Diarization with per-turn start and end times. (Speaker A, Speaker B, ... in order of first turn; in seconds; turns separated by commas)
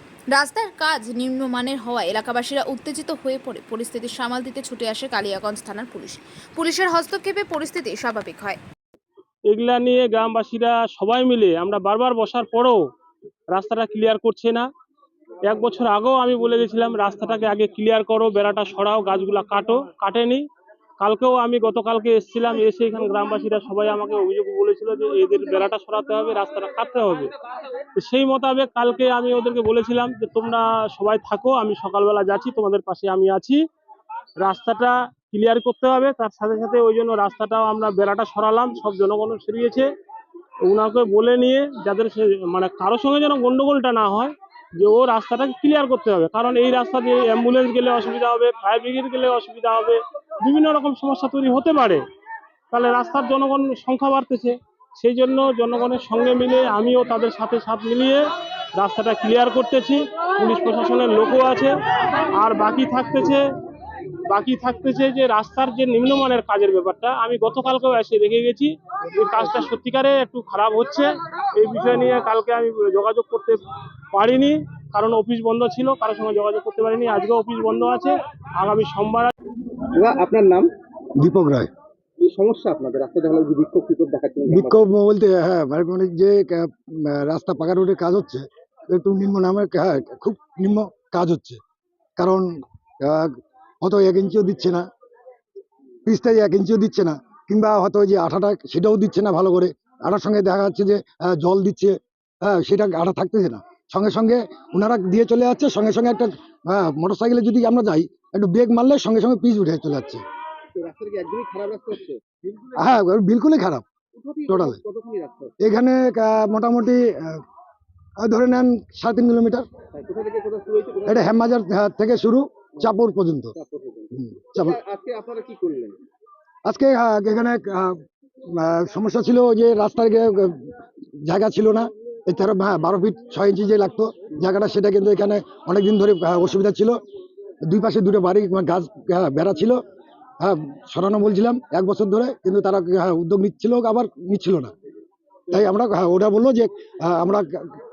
Speaker A: 0.3-8.6, Speaker B: 9.5-12.8, Speaker B: 13.5-14.7, Speaker B: 15.4-20.4, Speaker B: 21.0-27.3, Speaker B: 27.9-33.6, Speaker B: 34.4-39.9, Speaker B: 40.6-52.0, Speaker B: 52.7-61.7, Speaker B: 62.3-63.5, Speaker B: 64.2-73.6, Speaker B: 74.1-79.3, Speaker C: 79.9-80.7, Speaker D: 81.2-81.7, Speaker C: 82.2-84.8, Speaker D: 84.5-91.6, Speaker D: 92.2-92.4, Speaker D: 93.0-94.8, Speaker D: 96.0-110.2, Speaker C: 110.7-112.7, Speaker D: 112.7-113.8, Speaker C: 114.2-115.5, Speaker D: 114.5-114.8, Speaker D: 115.6-117.4, Speaker D: 118.2-119.7, Speaker C: 119.9-121.3, Speaker D: 121.1-123.5, Speaker C: 123.5-126.0, Speaker D: 124.1-124.8, Speaker D: 126.7-137.0, Speaker D: 137.6-139.8, Speaker D: 140.4-144.7, Speaker D: 145.5-147.7